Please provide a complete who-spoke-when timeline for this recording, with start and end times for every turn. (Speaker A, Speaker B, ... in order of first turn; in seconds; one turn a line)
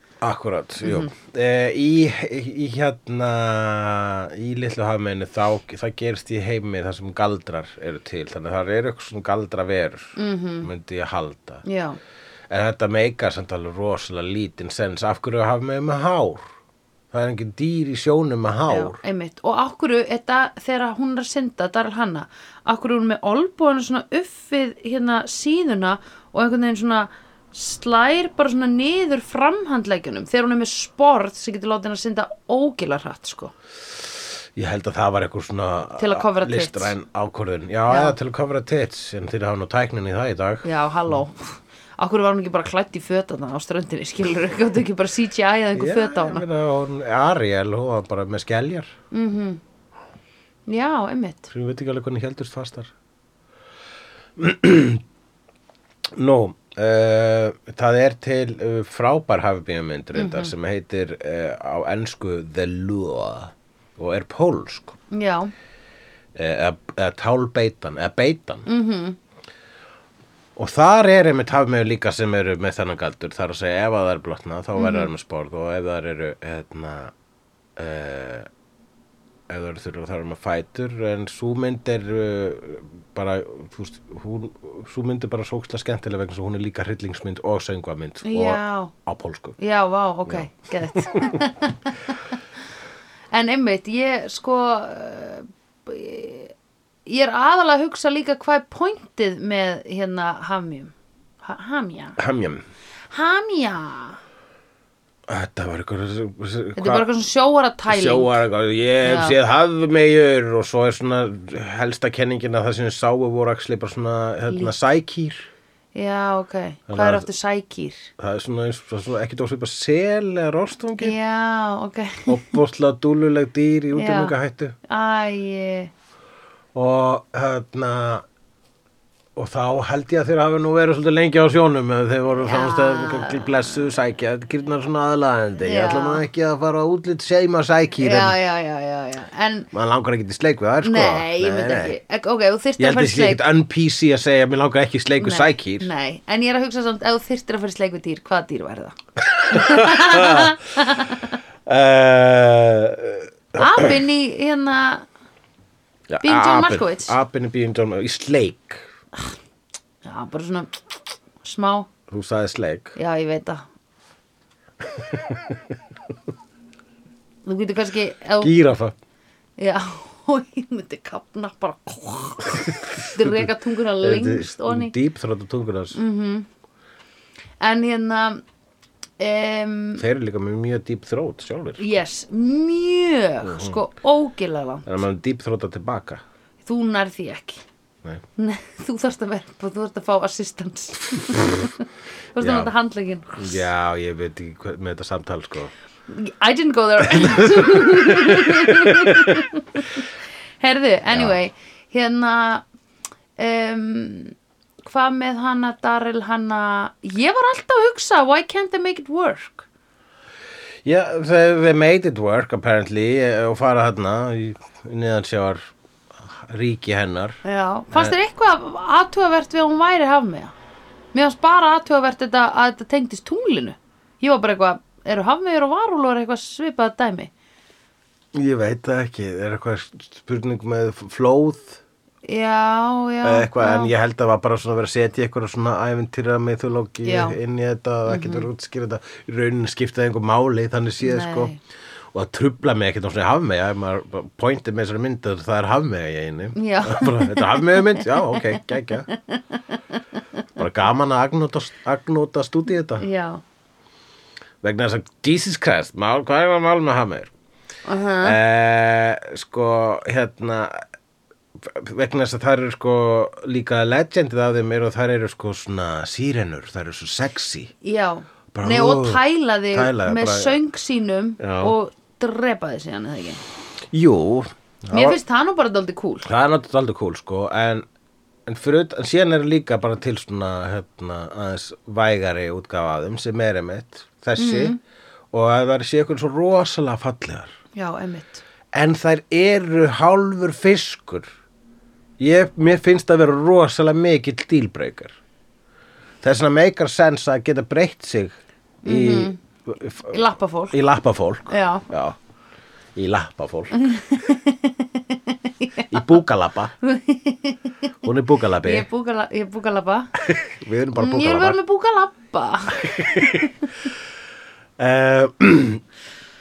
Speaker A: 0.2-11.6
Speaker B: 0.8-1.1
Speaker B: 10.2-10.7
Speaker B: 11.6-12.0
Speaker A: 12.5-16.5
Speaker A: 17.1-19.0
Speaker B: 18.7-33.5
Speaker A: 34.6-40.7
Speaker B: 36.0-36.9
Speaker B: 37.9-38.2
Speaker B: 40.6-46.4
Speaker A: 45.8-48.9
Speaker B: 49.1-49.6
Speaker B: 50.7-51.5
Speaker A: 51.5-52.9
Speaker A: 54.4-55.0
Speaker A: 56.1-65.0
Speaker B: 60.1-60.5
Speaker B: 65.1-65.5
Speaker A: 66.3-68.7
Speaker B: 68.7-69.2
Speaker A: 70.6-77.1
Speaker B: 74.8-75.1
Speaker A: 77.8-78.5
Speaker A: 79.5-89.6
Speaker B: 88.2-88.9
Speaker B: 89.6-92.2
Speaker A: 90.3-91.4
Speaker B: 93.3-96.5
Speaker B: 97.1-102.2
Speaker A: 102.2-102.6
Speaker B: 103.1-104.2
Speaker A: 105.3-107.1
Speaker B: 106.8-108.4
Speaker A: 107.9-115.5
Speaker B: 109.0-109.4
Speaker B: 116.0-118.1
Speaker A: 116.9-117.3
Speaker A: 118.2-121.2
Speaker B: 121.0-122.5
Speaker A: 122.3-124.8
Speaker B: 123.9-124.3
Speaker B: 124.9-125.9
Speaker A: 126.7-128.2
Speaker A: 129.4-138.4
Speaker B: 132.4-133.6
Speaker B: 135.6-136.2
Speaker B: 138.0-139.7
Speaker A: 139.7-142.0
Speaker B: 140.8-143.4
Speaker A: 142.8-145.9
Speaker B: 145.2-149.0
Speaker A: 149.2-150.6
Speaker B: 149.5-151.4
Speaker A: 151.7-154.0
Speaker B: 153.6-155.1
Speaker A: 156.1-158.8
Speaker B: 156.2-157.1
Speaker B: 160.0-160.7
Speaker B: 161.4-161.9
Speaker A: 162.1-163.0
Speaker B: 163.0-163.7
Speaker A: 164.9-165.7
Speaker B: 167.4-168.5
Speaker A: 168.4-168.9
Speaker B: 169.6-174.9
Speaker A: 172.9-173.4
Speaker A: 174.0-176.0
Speaker B: 175.9-176.5
Speaker B: 177.6-178.4
Speaker B: 179.2-180.0
Speaker A: 180.0-182.0
Speaker B: 181.8-184.9
Speaker A: 183.4-183.8
Speaker A: 184.8-186.2
Speaker B: 186.7-187.6
Speaker B: 188.4-191.8
Speaker B: 192.3-193.6
Speaker A: 192.4-192.7
Speaker A: 193.4-195.7
Speaker B: 196.1-200.0
Speaker A: 197.1-199.4
Speaker B: 200.6-202.7
Speaker A: 201.1-201.4
Speaker B: 203.4-209.7
Speaker A: 210.8-217.4
Speaker B: 217.4-220.5
Speaker B: 221.1-227.3
Speaker A: 228.3-231.8
Speaker B: 232.2-233.9
Speaker A: 233.2-241.5
Speaker B: 237.0-237.4
Speaker B: 238.1-238.5
Speaker B: 241.0-241.6
Speaker A: 242.1-249.1
Speaker B: 246.6-248.6
Speaker B: 249.1-249.8
Speaker A: 250.6-253.1
Speaker B: 253.0-253.4
Speaker A: 254.6-257.3
Speaker B: 257.9-258.4
Speaker A: 258.2-260.8
Speaker A: 261.6-267.7
Speaker B: 267.8-273.4
Speaker A: 268.5-270.6
Speaker A: 271.4-271.8
Speaker A: 273.9-275.2
Speaker B: 274.9-276.3
Speaker A: 276.2-277.9
Speaker A: 278.5-284.8
Speaker B: 284.4-284.8
Speaker A: 285.3-287.5
Speaker B: 287.8-288.4
Speaker A: 288.7-291.3
Speaker A: 292.2-295.2
Speaker A: 296.2-300.2
Speaker B: 298.9-299.4
Speaker B: 300.1-300.8
Speaker A: 300.7-302.2
Speaker B: 301.5-301.9
Speaker A: 302.9-303.7
Speaker B: 303.8-306.0
Speaker A: 305.9-306.7
Speaker B: 306.8-307.8
Speaker A: 308.0-308.9
Speaker B: 308.6-310.1
Speaker A: 310.2-311.6
Speaker B: 311.0-313.4
Speaker A: 312.8-313.5
Speaker A: 314.8-315.8